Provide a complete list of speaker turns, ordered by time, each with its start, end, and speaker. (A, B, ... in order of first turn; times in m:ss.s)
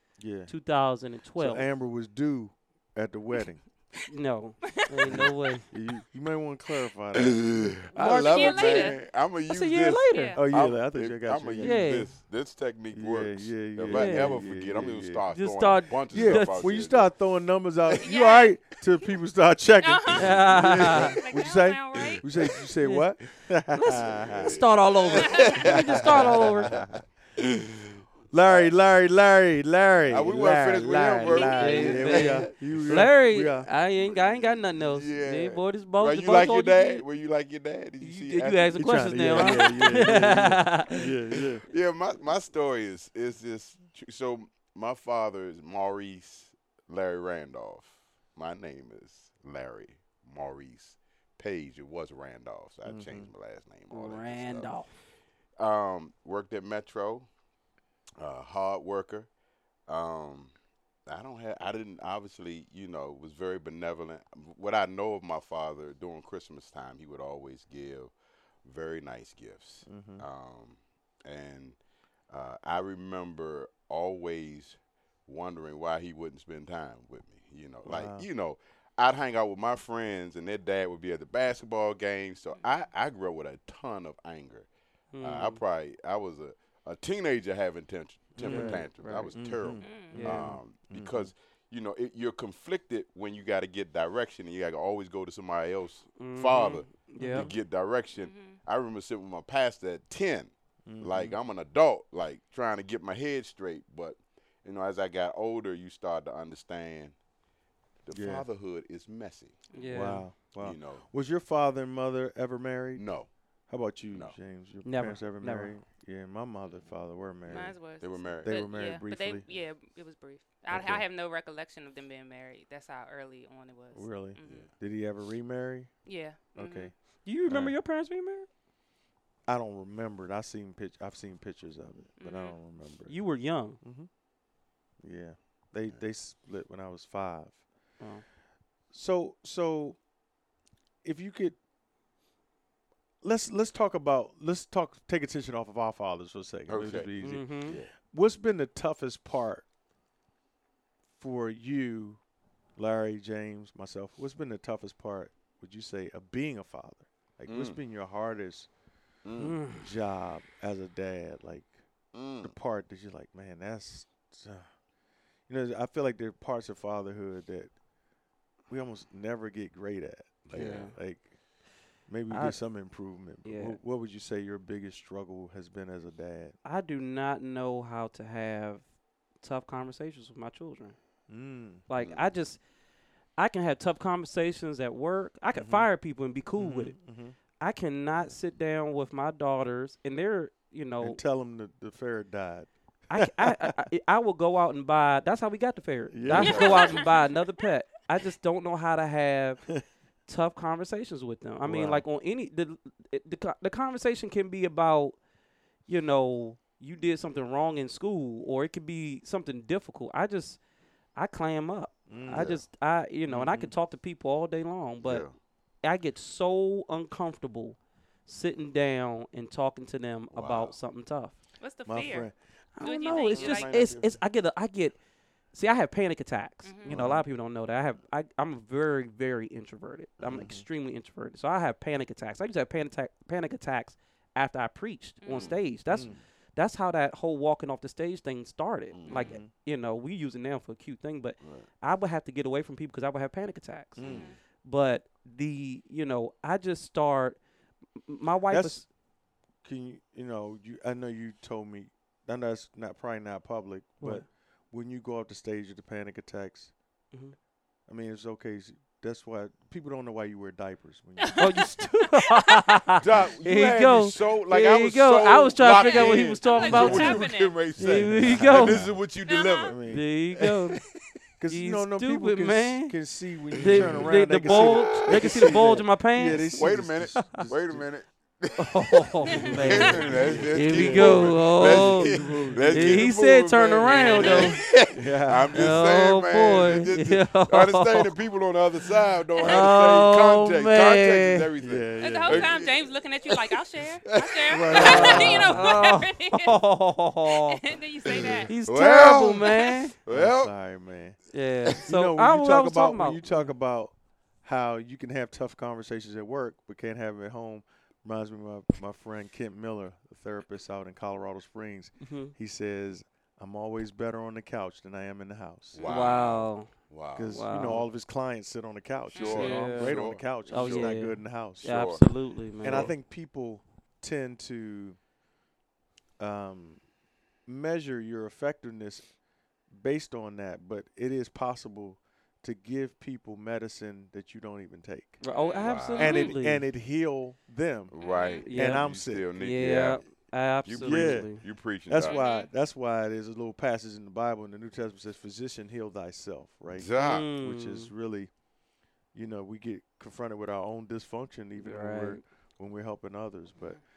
0:00.2-0:00.5 A
0:00.5-0:01.6 B
0:01.4-0:03.6 A
0:04.1-0:05.6 B
0:05.7-0:07.7 A
0:07.2-0:17.1 C
0:08.0-0:09.0 D
0:08.0-0:08.9 B
0:09.5-0:10.4 B
0:10.1-0:10.4 D
0:10.3-0:11.8 A
0:11.6-0:12.1 B
0:12.9-0:15.2 A
0:13.9-0:14.4 B
0:15.3-0:16.7 B
0:16.1-0:24.6 A
0:18.0-0:18.6 D
0:19.8-0:22.2 D
0:20.1-0:21.2 B
0:20.3-0:21.2 C
0:21.9-0:22.4 C
0:22.8-0:23.1 B
0:23.7-0:26.8 B
0:24.0-0:28.7 C
0:25.1-0:25.7 D
0:25.6-0:27.0 A
0:28.3-0:33.7 A
0:30.1-0:32.5 C
0:31.3-0:32.0 D
0:31.4-0:37.0 B
0:34.0-0:40.4 C
0:38.0-0:41.1 B
0:38.8-0:41.6 A
0:41.6-0:54.7 C
0:52.8-0:53.3 A
0:53.9-0:55.0 B
0:55.6-0:57.3 C
0:58.2-0:59.3 C
0:59.9-1:00.5 C
1:01.0-1:08.1 C
1:08.6-1:11.8 C
1:09.8-1:10.2 A
1:12.3-1:24.7 C
1:17.8-1:18.2 A
1:25.1-1:25.6 B
1:25.2-1:47.1 C
1:28.4-1:31.3 A
1:28.4-1:29.3 B
1:29.8-1:30.2 D
1:30.1-1:30.5 B
1:36.2-1:37.5 B
1:37.2-1:37.5 A
1:38.2-1:38.6 D
1:40.8-1:41.4 A
1:48.0-1:49.6 C
1:48.1-1:48.4 A
1:49.7-1:50.1 D
1:49.7-1:50.3 B
1:49.9-1:53.0 A
1:50.6-1:51.0 C
1:52.9-1:53.3 C
1:53.7-1:57.8 A
1:54.8-1:55.7 B
1:57.5-2:04.7 D
1:57.5-1:58.6 C
1:58.4-1:59.4 A
2:00.7-2:01.0 A
2:03.9-2:05.9 A
2:04.4-2:04.7 C
2:06.0-2:06.9 D
2:06.5-2:06.9 A
2:07.2-2:08.5 B
2:07.5-2:07.7 A
2:09.5-2:13.1 A
2:12.2-2:12.6 D
2:13.1-2:13.8 B
2:13.8-2:14.1 A
2:15.0-2:17.6 A
2:18.0-2:18.2 B
2:18.9-2:20.0 A
2:21.0-2:21.6 A
2:23.2-2:27.5 A
2:26.7-2:27.9 C
2:27.2-2:27.8 B
2:28.0-2:29.6 A
2:31.2-2:32.2 A
2:32.8-2:38.7 A
2:37.5-2:37.8 C
2:39.2-2:39.6 C
2:39.4-2:39.9 B
2:39.7-2:41.8 A
2:42.1-2:42.5 C
2:42.4-2:44.7 A
2:45.5-2:47.7 A
2:48.7-2:51.3 A
2:50.5-2:50.9 C
2:50.5-2:50.9 B
2:52.1-2:56.6 A
2:52.3-2:52.6 B
2:53.4-2:53.8 B
2:56.6-2:58.8 B
2:59.4-3:01.0 B
3:01.3-3:01.8 A
3:01.9-3:02.6 B
3:02.0-3:02.3 C
3:03.4-3:07.0 B
3:05.5-3:05.9 A
3:06.6-3:07.4 A
3:07.6-3:11.2 B
3:11.0-3:13.8 A
3:13.1-3:19.6 B
3:16.1-3:16.8 A
3:16.3-3:17.1 C
3:16.4-3:17.4 D
3:20.3-3:25.2 B
3:21.6-3:22.0 A
3:25.9-3:30.6 B
3:31.2-3:35.2 B
3:32.1-3:32.5 A
3:32.3-3:32.6 C
3:33.3-3:33.7 A
3:35.0-3:35.3 C
3:35.8-3:41.4 B
3:40.3-3:40.8 C
3:41.6-3:43.7 D
3:41.8-3:42.3 A
3:42.8-3:45.0 B
3:43.4-3:43.9 C
3:43.5-3:44.0 A
3:45.5-4:04.1 B
3:46.6-3:47.0 D
3:46.9-3:47.2 A
3:50.2-3:50.5 C
3:50.3-3:50.6 A
3:55.2-3:55.5 D
3:55.3-3:55.6 C
3:55.9-3:56.2 A
3:58.9-3:59.3 C
3:59.1-3:59.3 D
3:59.2-3:59.5 A
4:01.4-4:01.7 C
4:04.0-4:04.3 A
4:04.0-4:04.3 C
4:04.0-4:04.4 D
4:04.6-4:07.4 B
4:08.1-4:08.8 B
4:08.5-4:08.8 A
4:09.6-4:16.7 A
4:17.9-4:21.4 A
4:21.2-4:22.5 D
4:21.4-4:28.8 B
4:23.0-4:29.8 C
4:25.7-4:27.6 D
4:27.8-4:29.0 A
4:29.2-4:29.7 D
4:29.6-4:30.1 A
4:29.9-4:30.8 B
4:30.4-4:31.0 C
4:31.4-4:37.9 A
4:31.5-4:32.9 B
4:33.5-4:35.6 C
4:33.6-4:36.7 B
4:36.6-4:53.5 C
4:38.6-4:44.6 B
4:39.3-4:40.4 D
4:39.5-4:43.1 A
4:43.8-4:44.6 D
4:44.9-4:45.7 A
4:45.5-4:48.2 B
4:49.4-4:51.5 B
4:51.6-4:52.6 A
4:52.0-4:56.6 D
4:54.1-4:55.3 C
4:54.5-4:55.7 A
4:54.7-4:57.6 B
4:57.3-4:58.5 D
4:58.1-5:00.5 C
4:58.5-4:59.9 B
5:00.1-5:01.2 A
5:01.3-5:03.5 B
5:01.8-5:15.8 A
5:12.0-5:12.3 B
5:15.7-5:17.3 C
5:15.8-5:16.7 B
5:17.1-5:21.7 A
5:17.3-5:17.8 B
5:19.1-5:19.5 D
5:19.1-5:21.0 C
5:19.2-5:22.9 B
5:21.6-5:22.0 C
5:22.6-5:22.9 C
5:22.6-5:25.0 A
5:26.2-5:26.8 A
5:27.4-5:29.1 A
5:29.7-5:35.2 A
5:35.2-5:36.6 B
5:35.3-5:36.3 D
5:35.6-5:36.3 C
5:36.0-5:37.9 A
5:37.9-5:40.0 C
5:38.0-5:38.5 D
5:38.4-5:38.8 B
5:38.5-5:39.3 A
5:39.4-5:41.4 B
5:40.6-5:42.2 C
5:40.8-5:41.3 A
5:41.9-5:48.3 A
5:42.0-5:42.5 D
5:46.7-5:47.3 C
5:47.0-5:47.9 B
5:49.1-5:53.8 A
5:51.6-5:52.2 B